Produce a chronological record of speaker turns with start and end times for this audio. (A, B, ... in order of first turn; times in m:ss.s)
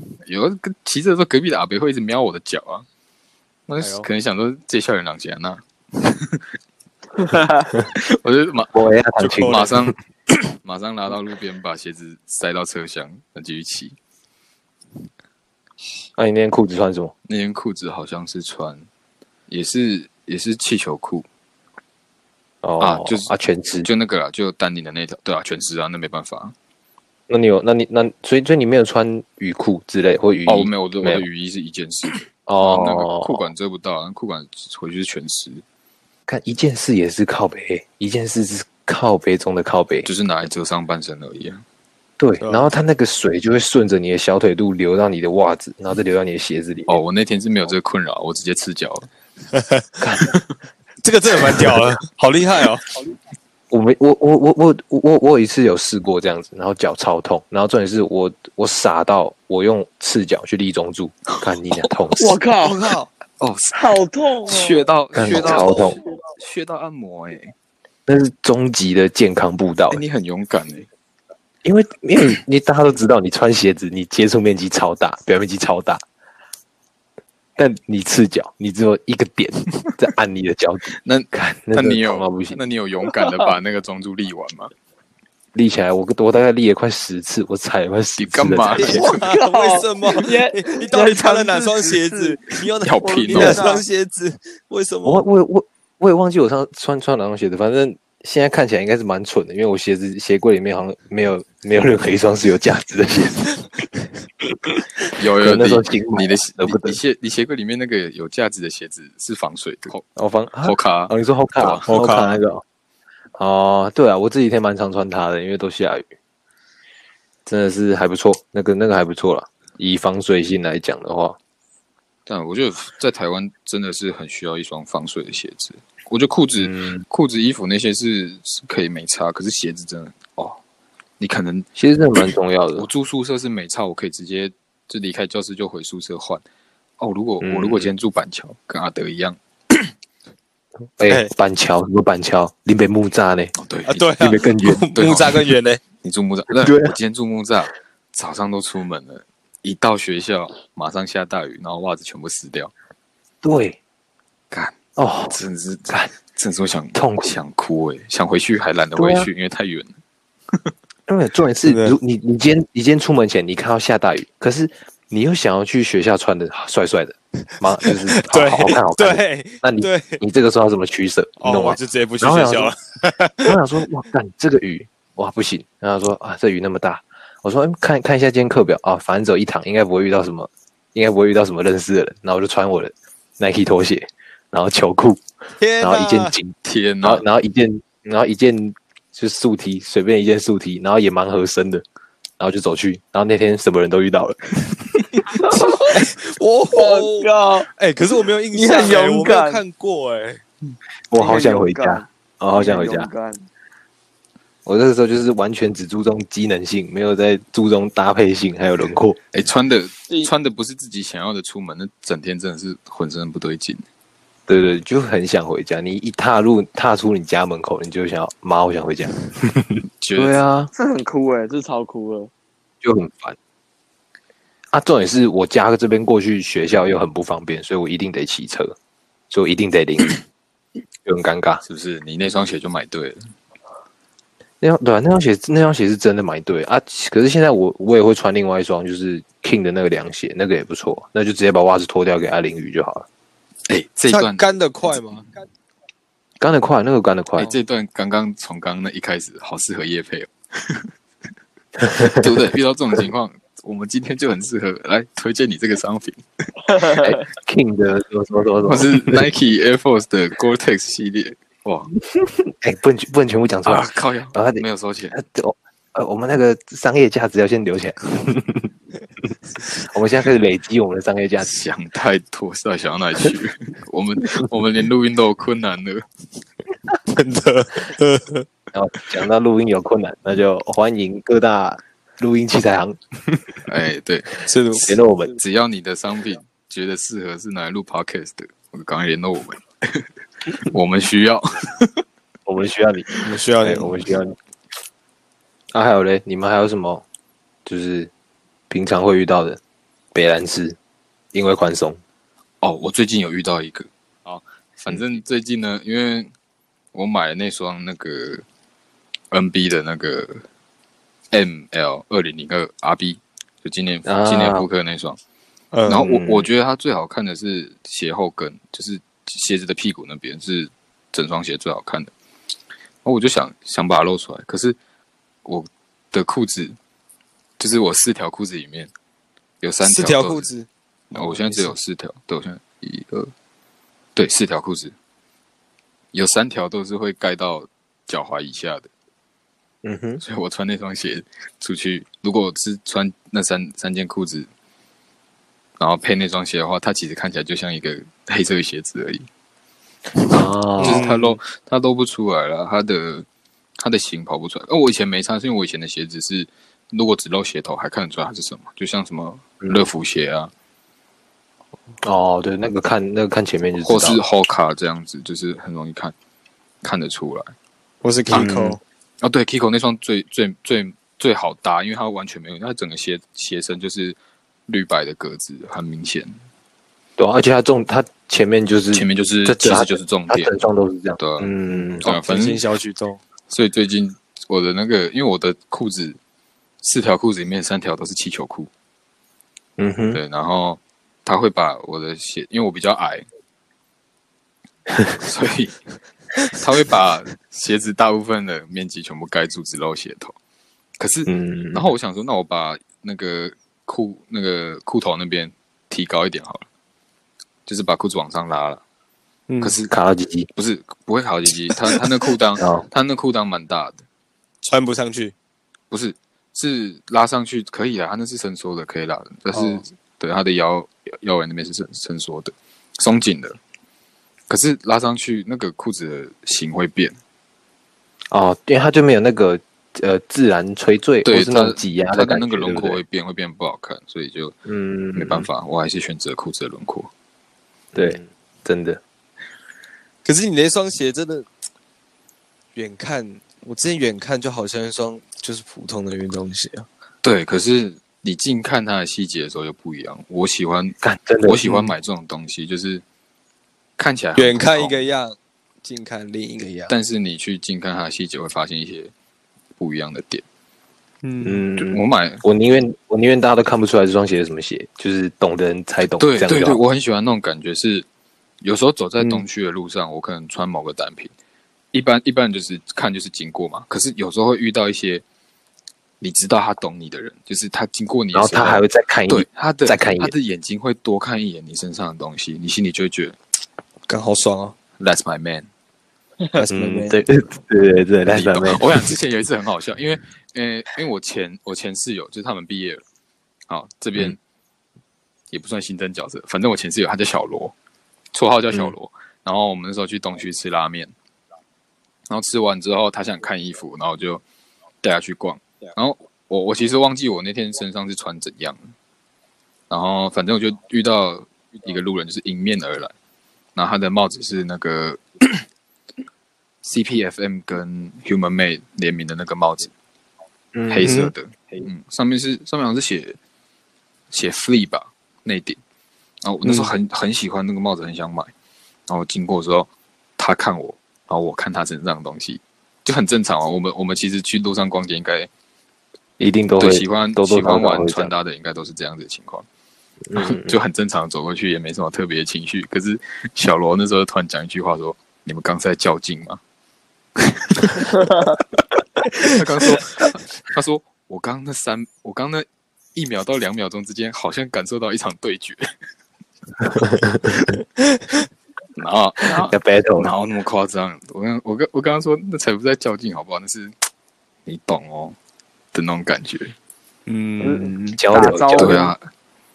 0:00.2-0:02.9 A
0:03.7-0:06.4 A
0:03.8-0:04.1 B
0:07.2-0:07.7 C
0:07.8-0:08.8 A
0:08.7-0:09.9 D
0:09.2-0:09.7 B
0:09.4-0:14.0 A
0:16.2-0:17.1 D
0:17.3-0:18.9 A
0:19.5-0:21.3 A
0:22.6-0:23.9 D
0:22.8-0:23.3 A
0:23.8-0:26.6 A
0:27.3-0:31.2 D
0:30.5-0:35.6 A
0:32.5-0:33.5 D
0:36.3-0:40.1 D
0:40.0-0:41.6 A
0:42.2-0:47.0 D
0:42.4-0:42.7 B
0:46.9-0:49.1 A
0:49.5-0:49.9 B
0:50.0-0:50.4 D
0:51.0-0:52.9 B
0:53.7-1:02.4 D
1:01.4-1:01.9 A
1:02.2-1:03.0 C
1:02.6-1:03.8 A
1:03.7-1:06.1 C
1:04.4-1:07.5 A
1:05.1-1:06.0 D
1:08.1-1:10.0 D
1:09.9-1:10.9 A
1:11.6-1:16.0 D
1:17.6-1:22.6 D
1:21.0-1:24.7 A
1:23.1-1:23.5 C
1:25.5-1:29.0 D
1:28.2-1:29.1 A
1:28.7-1:35.2 B
1:29.0-1:33.8 C
1:32.8-1:33.7 A
1:35.0-1:43.5 D
1:45.1-1:50.0 A
1:45.4-1:47.0 D
1:50.2-1:52.6 D
1:50.6-1:51.9 A
1:51.9-1:52.4 B
1:53.4-1:56.0 D
1:57.5-2:01.4 D
2:02.3-2:10.6 A
2:06.6-2:07.0 D
2:11.2-2:11.7 A
2:11.8-2:12.9 D
2:12.2-2:16.4 A
2:17.0-2:19.9 A
2:17.4-2:17.9 D
2:21.0-2:23.5 D
2:21.0-2:21.3 B
2:23.6-2:24.1 A
2:23.9-2:25.8 B
2:24.2-2:24.9 D
2:25.0-2:32.7 A
2:26.5-2:27.0 D
2:33.4-2:33.8 D
2:34.5-2:34.8 A
2:35.0-2:35.4 D
2:35.3-2:39.9 A
2:36.9-2:37.4 D
2:39.0-2:39.3 D
2:41.1-2:52.7 D
2:41.6-2:42.0 B
2:47.8-2:50.2 B
2:51.4-2:53.6 B
2:53.4-3:05.2 D
3:05.6-3:06.4 B
3:05.8-3:11.8 D
3:06.6-3:07.2 A
3:12.4-3:14.7 D
3:15.3-3:16.0 C
3:15.5-3:20.4 B
3:16.7-3:17.7 C
3:18.5-3:19.6 C
3:21.1-3:23.1 D
3:21.2-3:23.5 C
3:24.6-3:29.2 D
3:29.3-3:33.8 A
3:34.5-3:40.7 D
3:40.0-3:40.4 A
3:40.7-3:42.3 C
3:42.8-3:43.4 D
3:44.7-3:48.8 D
3:49.3-3:50.2 D
3:51.0-3:51.6 D
3:51.6-3:53.3 A
3:54.6-4:03.1 D
4:03.7-4:05.2 A
4:04.1-4:05.3 B
4:06.4-4:07.5 D
4:07.4-4:10.9 A
4:11.8-4:12.3 D
4:11.9-4:17.0 A
4:16.7-4:17.1 C
4:17.0-4:19.3 D
4:18.6-4:21.9 A
4:22.1-4:28.7 D
4:23.6-4:25.2 A
4:29.6-4:31.5 D
4:31.4-4:36.0 A
4:37.1-4:38.5 B
4:38.7-4:43.6 D
4:43.6-4:52.0 A
4:44.4-4:44.9 B
4:44.9-4:45.4 D
4:52.5-4:53.1 D
4:53.2-4:53.9 B
4:53.6-4:54.4 D
4:55.7-4:57.0 D
4:57.6-4:58.1 D
4:58.7-4:59.6 D
5:00.1-5:00.8 D
5:01.3-5:02.0 D
5:02.6-5:06.3 A
5:06.9-5:08.4 A
5:09.3-5:10.4 A
5:11.3-5:15.2 A
5:14.1-5:14.7 D
5:15.7-5:16.1 B
5:15.9-5:22.1 A
5:15.9-5:16.5 D
5:23.0-5:24.8 A
5:25.4-5:26.8 A
5:27.6-5:28.9 A
5:29.6-5:30.5 A
5:29.8-5:31.7 B
5:31.1-5:33.3 A
5:34.2-5:35.0 A
5:36.1-5:38.9 A
5:39.8-5:40.2 D
5:40.2-5:44.5 A
5:45.8-5:49.3 A
5:50.2-5:53.3 A
5:50.3-5:51.1 D
5:50.8-5:51.4 B
5:53.8-6:00.5 A
6:02.0-6:04.2 D
6:03.8-6:06.1 A
6:06.8-6:07.5 A
6:08.0-6:08.8 B
6:08.3-6:08.8 D
6:09.2-6:16.4 A
6:17.2-6:22.0 D
6:18.9-6:20.5 A
6:21.2-6:22.6 A
6:22.0-6:23.2 B
6:23.5-6:26.2 A
6:26.8-6:28.7 A
6:29.8-6:30.2 D
6:30.1-6:33.2 A
6:35.2-6:35.8 A
6:36.4-6:40.4 A
6:41.0-6:46.6 A
6:41.3-6:41.9 D
6:47.7-6:48.8 A
6:49.5-6:49.8 B
6:49.6-6:49.9 A
6:49.9-6:50.5 D
6:50.6-6:54.0 A
6:52.6-6:52.8 D
6:54.6-6:55.3 B
6:55.9-7:03.6 A
6:59.5-6:59.8 B
7:04.5-7:07.2 A
7:08.3-7:13.0 D
7:11.2-7:14.6 A
7:14.7-7:15.5 D
7:15.1-7:17.1 A
7:17.9-7:19.0 D
7:20.2-7:21.5 B
7:22.8-7:26.9 B
7:27.2-7:33.0 A
7:31.0-7:31.9 D
7:34.0-7:34.9 A
7:34.4-7:37.0 B
7:36.9-7:39.1 A
7:39.8-7:40.4 A
7:41.2-7:41.6 B
7:41.4-7:46.8 D
7:41.8-7:42.4 A
7:46.2-7:48.1 A
7:48.6-7:51.3 A
7:51.9-7:55.2 A
7:56.2-8:03.4 A
7:58.3-8:00.3 D
8:04.1-8:04.8 B
8:05.0-8:05.7 A
8:06.5-8:07.3 B
8:06.7-8:09.0 D
8:08.3-8:13.0 A
8:13.7-8:14.4 A
8:15.5-8:17.7 A
8:18.3-8:21.1 A
8:22.3-8:24.4 A
8:25.0-8:28.8 A
8:29.9-8:33.1 A
8:33.8-8:35.6 A
8:36.8-8:39.9 A
8:40.7-8:41.3 D
8:40.9-8:43.4 A
8:41.0-8:41.3 B
8:44.3-8:45.8 A
8:46.4-8:48.5 A
8:49.1-8:55.5 A
8:56.4-8:58.3 D
8:56.8-8:59.7 A
9:00.3-9:00.8 D
9:00.4-9:06.6 A
9:07.4-9:08.1 A
9:08.2-9:08.6 C
9:09.4-9:15.9 A
9:16.9-9:17.6 D
9:18.0-9:18.3 B
9:19.0-9:23.9 A
9:19.6-9:20.3 D
9:24.7-9:25.4 A
9:25.9-9:26.7 A
9:27.3-9:28.2 B
9:27.6-9:29.1 C
9:28.2-9:29.1 D
9:28.8-9:29.2 A